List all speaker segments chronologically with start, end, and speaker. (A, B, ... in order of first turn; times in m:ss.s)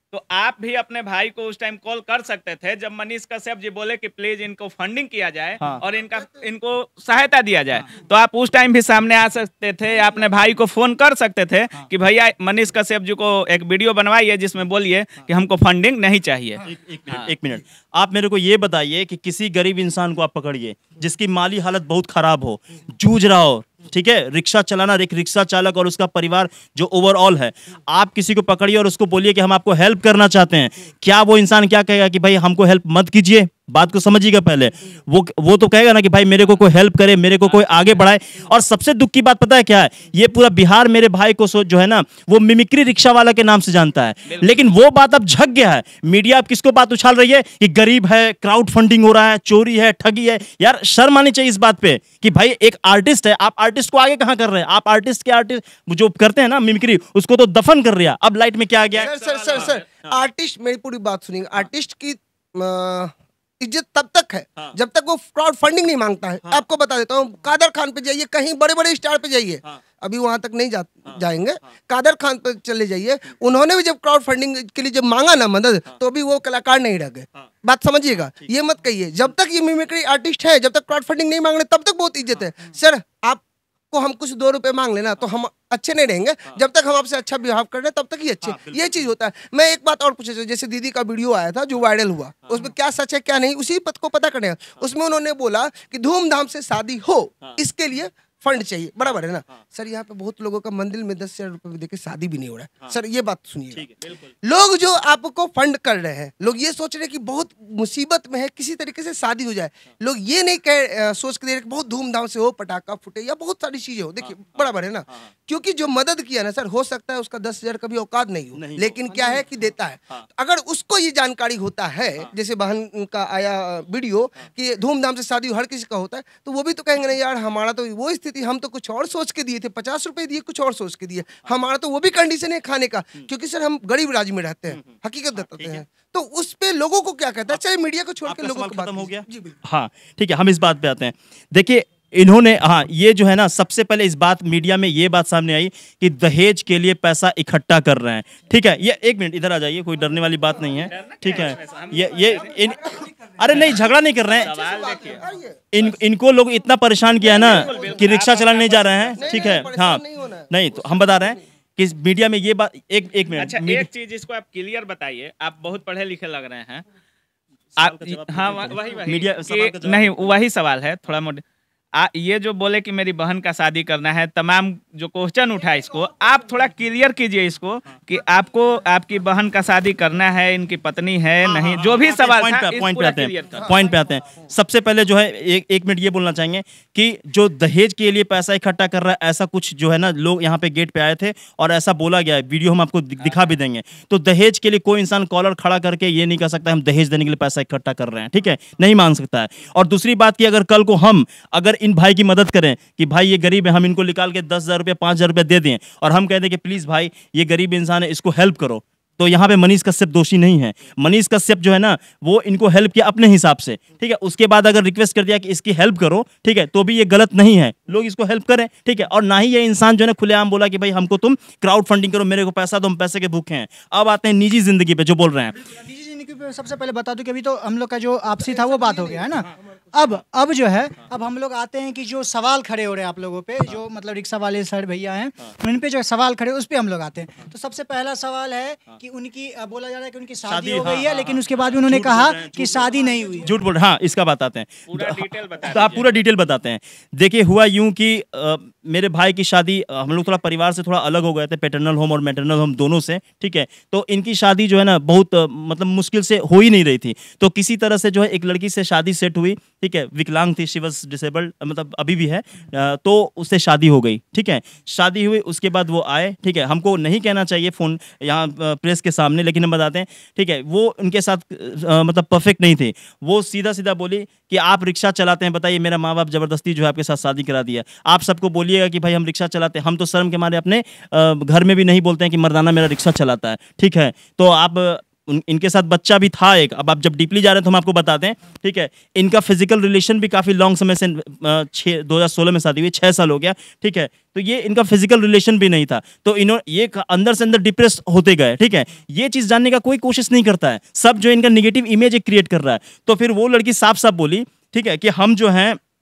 0:00.1-0:17.3 A
0:16.6-1:00.1 B
0:58.9-1:43.9 C
0:59.1-0:59.8 A
1:28.4-1:28.9 B
1:43.7-1:44.2 B
1:44.4-2:19.5 C
1:58.5-1:59.4 B
2:15.4-2:15.8 B
2:18.2-2:34.9 B
2:30.8-2:32.8 A
2:32.9-2:33.5 C
2:33.4-2:33.9 A
2:34.1-2:35.9 C
2:34.4-2:35.2 A
2:35.7-2:43.9 B
2:37.2-2:38.2 C
2:37.2-2:39.6 A
2:39.2-2:41.4 C
2:43.4-2:46.8 A
2:47.8-2:50.3 B
2:47.8-2:51.4 A
2:52.0-3:03.7 A
3:01.4-3:45.5 B
3:45.6-4:03.6 D
3:48.6-3:49.2 C
4:00.5-5:05.8 B
4:04.9-4:06.2 A